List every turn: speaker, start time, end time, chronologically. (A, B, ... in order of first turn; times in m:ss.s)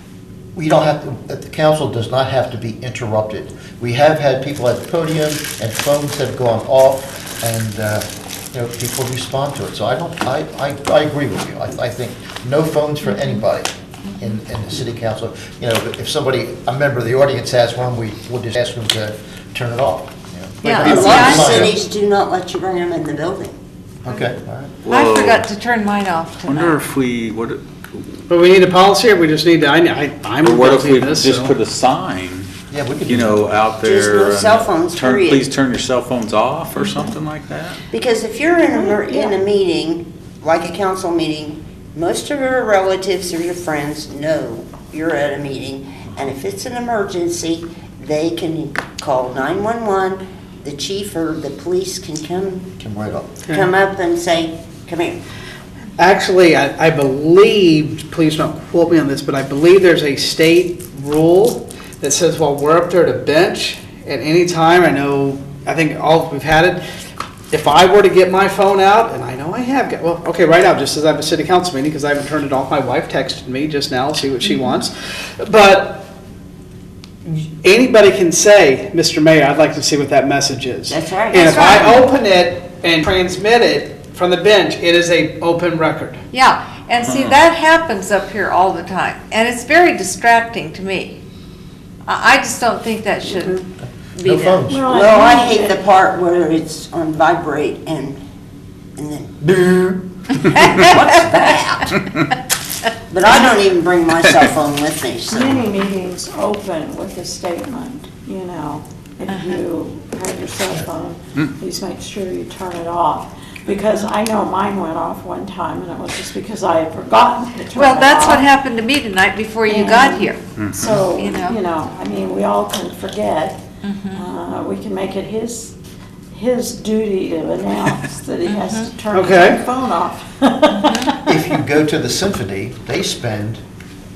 0:00.6-0:21.7 A
0:13.1-0:13.4 B
0:20.6-0:21.7 B
0:20.8-0:23.6 C
0:24.0-0:24.7 A
0:24.8-0:25.5 D
0:24.9-0:26.8 B
0:26.4-0:28.0 D
0:28.3-0:31.6 E
0:30.4-0:32.5 D
0:32.7-0:33.4 A
0:33.0-0:37.8 D
0:33.8-0:35.5 C
0:37.9-0:52.7 C
0:38.7-0:39.3 F
0:52.8-0:53.3 A
0:53.5-0:55.2 C
0:56.0-1:06.8 E
1:07.5-1:16.1 E
1:17.2-1:26.2 E
1:20.9-1:21.7 C
1:21.3-1:21.9 B
1:26.3-1:31.2 B
1:27.0-1:27.4 D
1:32.0-1:33.6 B
1:34.2-1:34.6 B
1:34.2-1:34.8 A
1:34.7-1:35.8 F
1:34.9-1:38.2 C
1:39.0-1:42.0 C
1:40.4-1:40.9 B
1:43.1-1:45.7 C
1:45.3-1:58.5 F
1:49.3-1:49.6 B
1:53.7-1:54.1 B
1:57.8-2:00.4 B
1:59.7-2:03.6 F
2:00.6-2:01.0 D
2:01.1-2:01.6 B
2:03.8-2:04.3 B
2:04.1-2:05.7 F
2:06.3-2:11.3 F
2:08.5-2:08.9 B
2:09.1-2:09.6 E
2:11.2-2:13.6 A